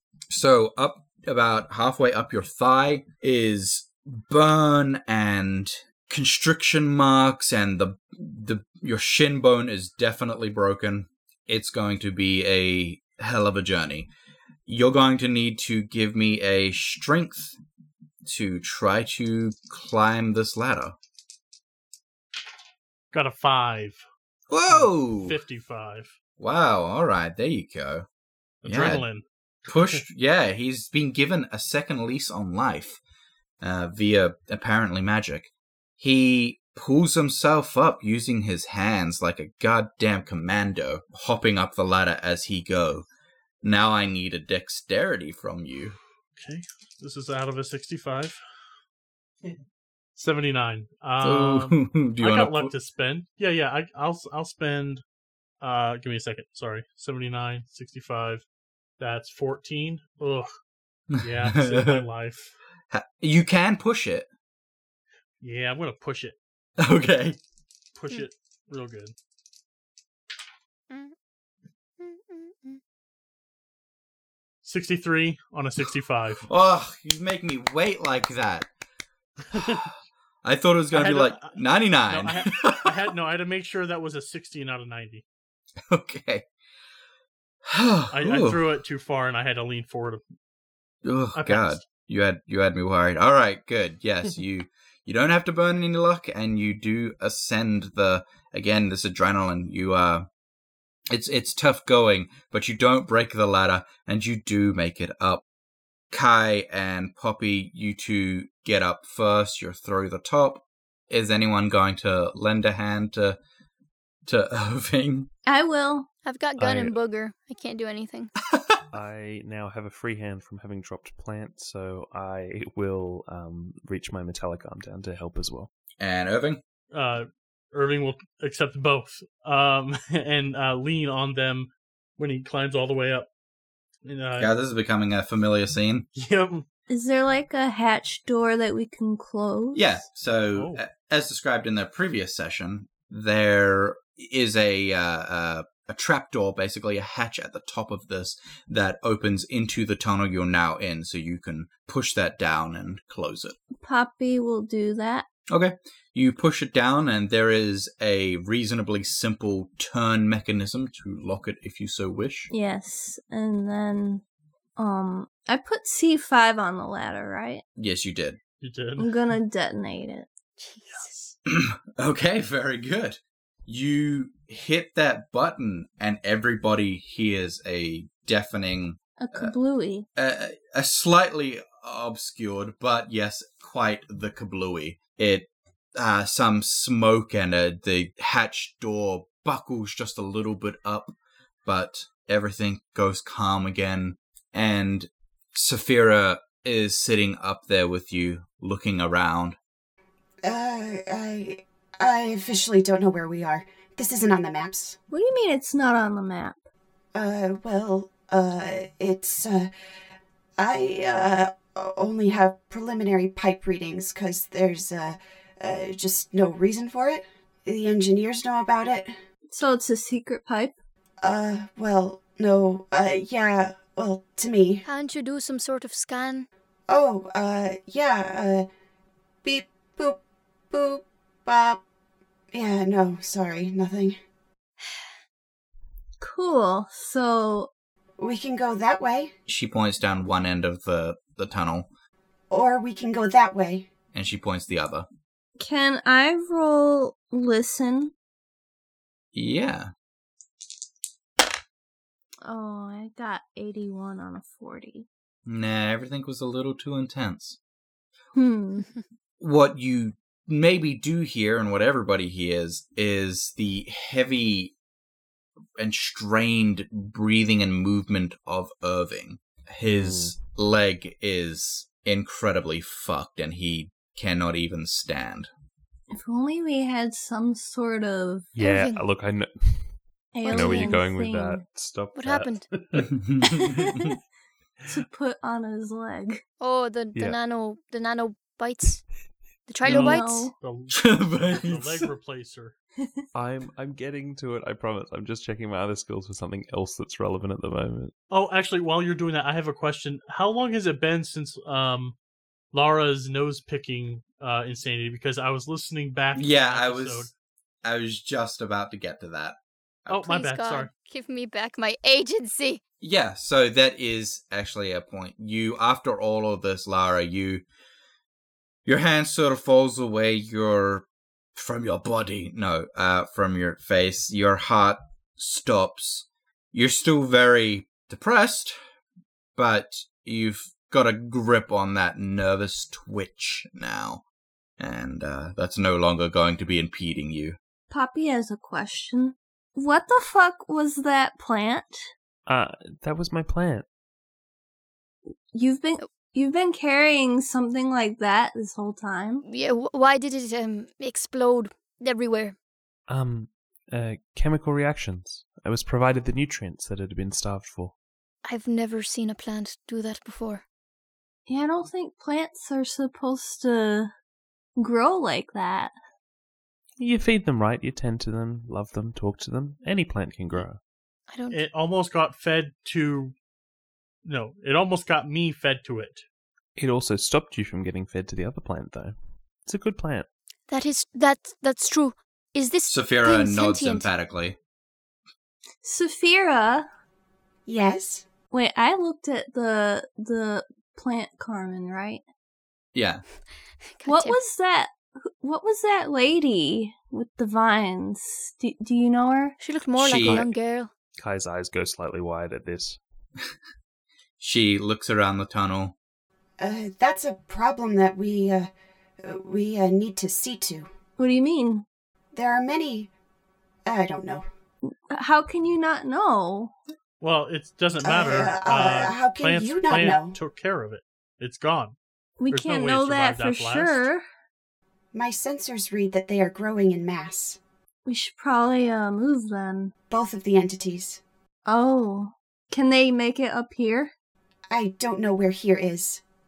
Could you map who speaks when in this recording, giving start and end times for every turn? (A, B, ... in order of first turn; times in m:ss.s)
0:00.3-0:14.1 A
0:14.7-0:17.6 A
0:18.2-0:21.0 A
0:23.1-0:24.0 B
0:24.5-0:25.4 A
0:24.7-0:26.1 B
0:26.4-0:28.0 A
0:28.6-0:30.0 B
0:28.6-0:29.0 A
0:29.7-0:33.0 A
0:33.6-0:43.0 A
0:43.6-0:46.0 A
0:46.4-0:48.4 B
0:50.2-0:55.0 B
0:51.2-0:52.7 A
0:55.6-0:58.4 B
0:59.0-1:00.5 B
1:01.1-1:02.0 A
1:01.2-1:02.6 B
1:02.9-1:04.3 A
1:05.4-1:06.4 B
1:06.8-1:07.4 A
1:08.0-1:09.1 B
1:10.9-1:11.1 C
1:12.0-1:12.8 C
1:14.6-1:16.4 B
1:16.5-1:18.7 A
1:19.5-1:19.8 B
1:19.5-1:19.9 A
1:20.4-1:23.0 A
1:20.9-1:25.2 B
1:25.9-1:26.4 A
1:27.7-1:28.6 A
1:28.1-1:30.2 B
1:31.0-1:40.3 A
1:31.3-1:31.8 B
1:41.1-1:45.4 A
1:46.1-1:53.4 A
1:54.2-1:55.3 A
1:55.4-1:56.1 D
1:56.2-1:58.3 C
1:56.6-1:57.0 E
1:58.9-2:05.7 E
2:06.0-2:06.6 A
2:06.9-2:13.3 B
2:14.0-2:14.5 B
2:14.4-2:16.1 A
2:16.2-2:16.6 B
2:16.9-2:20.0 D
2:19.7-2:33.6 A
2:20.5-2:20.8 B
2:33.8-2:35.2 D
2:35.5-2:42.5 A
2:42.5-2:44.2 D
2:44.8-2:47.6 D
2:47.8-2:48.4 A
2:48.6-2:49.1 B
2:49.0-2:50.3 D
2:50.6-2:51.2 C
2:50.9-2:51.3 B
2:51.5-2:59.5 A
2:59.2-3:00.1 D
3:00.2-3:11.1 A
3:11.6-3:19.6 A
3:20.4-3:25.0 F
3:25.1-3:26.6 D
3:27.1-3:29.7 F
3:30.6-3:39.1 F
3:39.5-3:40.8 D
3:41.2-3:44.8 F
3:44.8-3:46.5 C
3:46.9-3:48.7 F
3:49.4-3:50.2 F
3:50.7-3:51.8 F
3:52.5-3:54.2 F
3:56.2-3:57.7 D
3:58.2-3:59.3 F
3:59.5-4:01.9 A
4:02.5-4:03.9 F
4:04.1-4:05.1 A
4:05.6-4:08.1 D
4:09.3-4:09.9 A
4:12.4-4:15.1 D
4:15.5-4:17.6 A
4:18.3-4:18.9 D
4:19.4-4:24.7 A
4:25.8-4:35.5 A
4:29.9-4:30.4 E
4:36.1-4:38.5 D
4:38.6-4:43.9 E
4:38.6-4:39.0 C
4:40.3-4:41.6 D
4:40.4-4:41.0 C
4:42.1-4:42.7 C
4:43.1-4:43.9 A
4:44.9-4:46.4 D
4:46.6-4:49.0 C
4:49.7-4:50.5 C
4:49.8-4:52.7 B
4:49.9-4:50.5 D
4:50.9-4:52.1 A
4:53.3-4:58.1 E
4:58.3-5:02.2 B
5:02.7-5:07.3 B
5:06.3-5:07.3 A
5:07.8-5:10.2 A
5:10.1-5:10.9 B
5:10.2-5:12.8 C
5:13.0-5:17.6 A
5:18.8-5:28.8 A
5:29.6-5:34.2 A
5:34.8-5:37.6 A
5:37.9-5:42.1 D
5:42.5-5:43.8 E
5:45.5-5:49.4 D
5:49.4-5:52.6 C
5:53.1-5:57.9 E
5:58.4-6:00.6 C
6:01.5-6:04.1 D
6:04.8-6:05.9 D
6:07.0-6:10.8 E
6:11.3-6:11.6 C
6:11.5-6:13.3 B
6:14.2-6:16.2 B
6:16.8-6:20.3 E
6:20.7-6:24.1 C
6:22.9-6:24.6 A
6:25.8-6:26.9 D
6:27.6-6:28.2 F
6:28.5-6:32.2 D
6:32.9-6:33.2 A
6:34.0-6:34.4 C
6:34.0-6:39.6 D
6:39.6-6:40.9 C
6:40.0-6:40.5 A
6:40.2-6:40.5 E
6:41.2-6:43.0 E
6:44.4-6:45.9 A
6:46.6-6:48.7 F
6:49.2-6:50.9 F
6:51.2-6:51.8 D
6:52.3-6:53.1 F
6:53.8-6:54.4 F
6:54.8-6:56.7 D
6:57.2-7:02.0 B
6:58.0-7:00.4 F
7:02.4-7:04.2 D
7:02.5-7:04.1 B
7:05.1-7:07.6 F
7:08.0-7:09.9 D
7:10.1-7:11.2 F
7:11.6-7:14.1 D
7:14.7-7:16.2 F